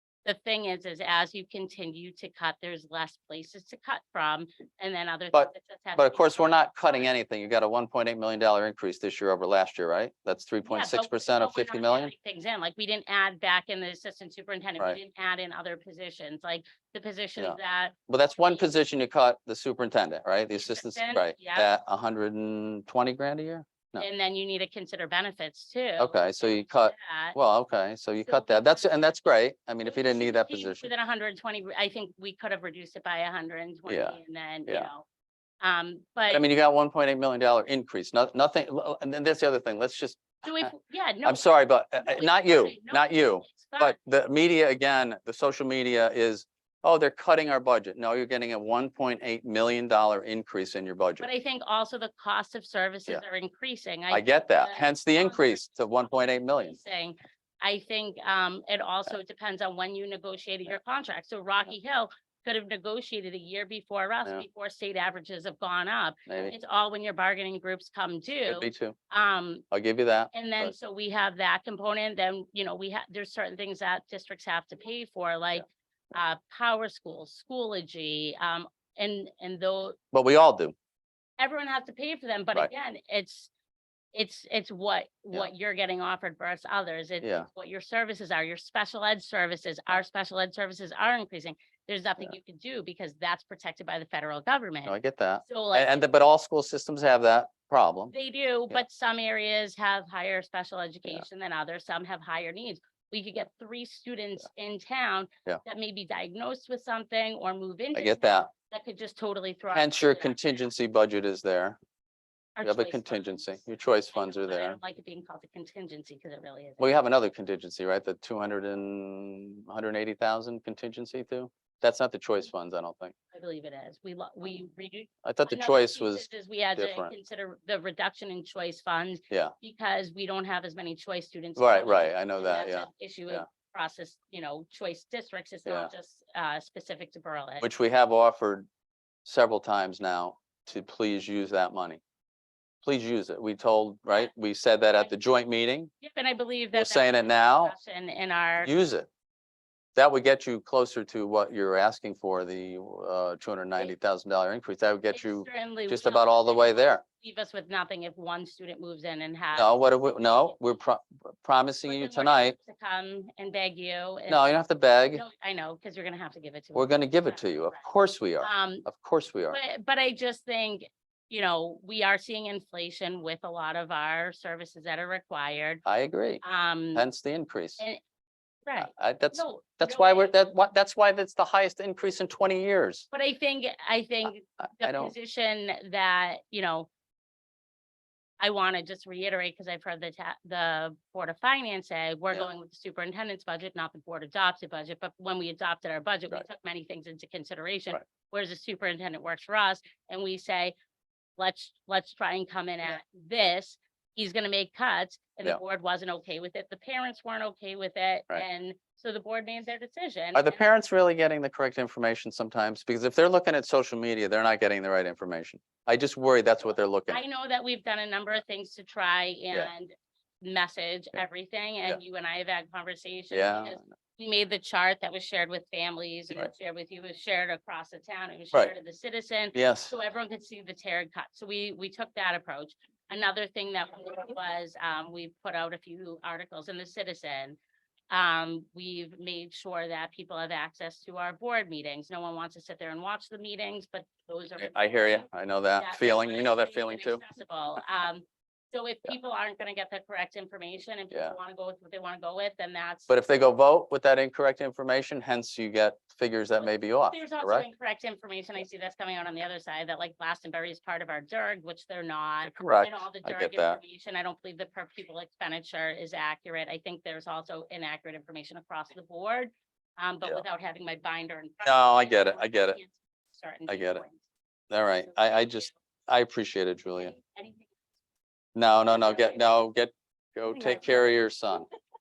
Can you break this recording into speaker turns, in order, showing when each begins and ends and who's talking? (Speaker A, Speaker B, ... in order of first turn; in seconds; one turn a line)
Speaker A: 0.2-7.1
Speaker B: 5.3-12.1
Speaker A: 10.6-18.7
Speaker B: 17.4-24.1
Speaker A: 20.6-21.7
Speaker A: 24.0-27.4
Speaker B: 26.0-30.9
Speaker A: 28.2-29.1
Speaker A: 29.8-35.0
Speaker B: 33.9-34.2
Speaker A: 35.6-36.4
Speaker B: 36.3-40.7
Speaker A: 40.4-44.0
Speaker B: 41.2-51.3
Speaker A: 51.2-69.7
Speaker B: 54.1-56.8
Speaker B: 66.3-66.5
Speaker B: 68.5-69.0
Speaker B: 69.7-70.7
Speaker A: 70.3-80.0
Speaker B: 80.1-80.7
Speaker A: 81.4-83.5
Speaker A: 84.1-96.0
Speaker B: 87.2-87.5
Speaker B: 94.8-98.1
Speaker A: 98.1-110.6
Speaker B: 107.9-108.5
Speaker B: 109.7-111.8
Speaker A: 112.6-117.0
Speaker B: 112.6-114.8
Speaker B: 116.8-123.2
Speaker A: 123.3-137.7
Speaker B: 125.2-126.2
Speaker B: 126.8-127.1
Speaker B: 131.6-133.4
Speaker B: 137.6-138.7
Speaker B: 139.2-142.0
Speaker B: 142.8-145.9
Speaker A: 146.0-148.7
Speaker B: 146.7-147.7
Speaker B: 148.6-149.1
Speaker B: 149.9-157.0
Speaker A: 155.1-160.6
Speaker B: 159.5-162.6
Speaker A: 161.9-164.5
Speaker B: 164.3-165.2
Speaker A: 165.1-167.8
Speaker B: 166.7-169.6
Speaker A: 168.4-168.8
Speaker A: 169.5-175.8
Speaker B: 175.8-176.4
Speaker A: 176.4-177.1
Speaker B: 176.9-177.8
Speaker A: 178.7-180.5
Speaker B: 178.8-183.0
Speaker A: 183.1-186.9
Speaker B: 184.6-185.1
Speaker A: 188.4-200.8
Speaker A: 201.4-210.6
Speaker B: 210.3-217.2
Speaker A: 217.1-237.6
Speaker B: 223.3-223.8
Speaker B: 229.5-229.9
Speaker A: 238.1-253.2
Speaker B: 244.6-247.2
Speaker B: 251.1-251.3
Speaker B: 253.1-257.7
Speaker A: 256.6-274.2
Speaker B: 262.4-263.8
Speaker B: 271.6-272.8
Speaker B: 273.7-274.0
Speaker B: 274.7-277.1
Speaker A: 275.1-275.7
Speaker A: 277.0-277.8
Speaker B: 278.6-281.7
Speaker A: 278.9-279.6